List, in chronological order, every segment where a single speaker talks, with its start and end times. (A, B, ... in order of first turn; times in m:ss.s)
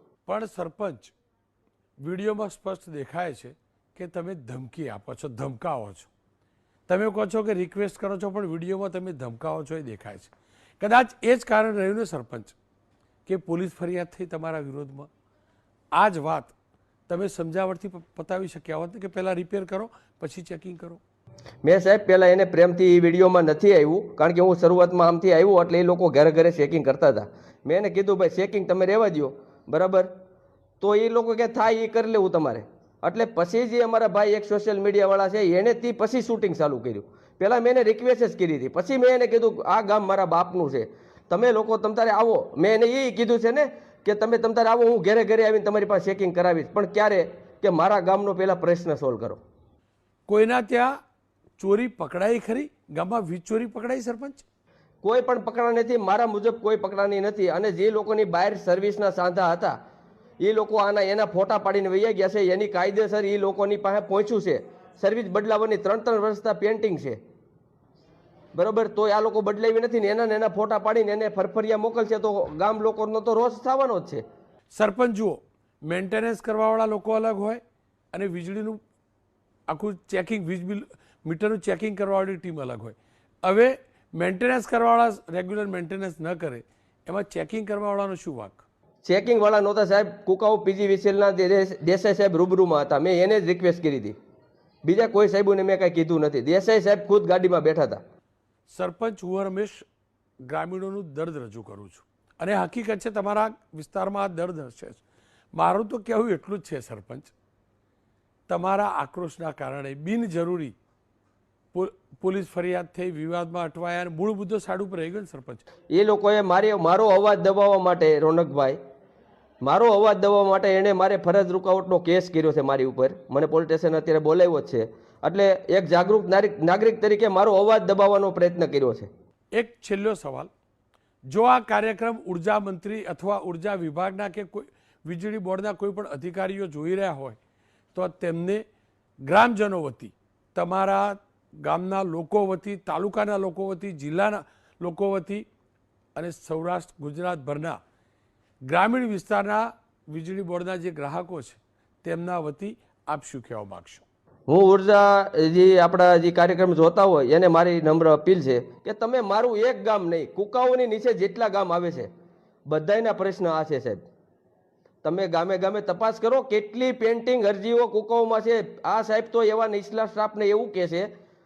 0:00.3-0:01.1 A
0:02.0-0:06.1 A
0:06.9-0:12.6 A
0:13.3-0:15.1 A
0:16.0-0:16.6 A
0:17.1-0:21.0 A
0:21.6-0:30.1 B
0:30.8-0:49.4 B
0:50.3-0:50.9 A
0:51.6-0:54.4 A
0:55.0-0:59.8 B
1:00.4-1:07.2 B
1:08.6-1:14.2 B
1:14.7-1:17.6 A
1:18.1-1:18.8 A
1:19.7-1:28.6 A
1:29.0-1:34.2 B
1:34.8-1:38.0 B
1:38.7-1:39.8 A
1:40.5-1:45.0 A
1:45.5-1:47.3 A
1:48.5-1:50.8 A
1:51.7-1:55.6 A
1:55.9-1:58.8 B
1:59.6-2:09.1 B
2:09.6-2:10.5 A
2:11.3-2:17.4 A
2:17.9-2:18.6 A
2:19.2-2:25.5 A
2:26.2-2:27.8 A
2:28.7-2:34.0 A
2:34.5-2:42.1 B
2:42.7-2:44.0 B
2:45.0-2:51.1 B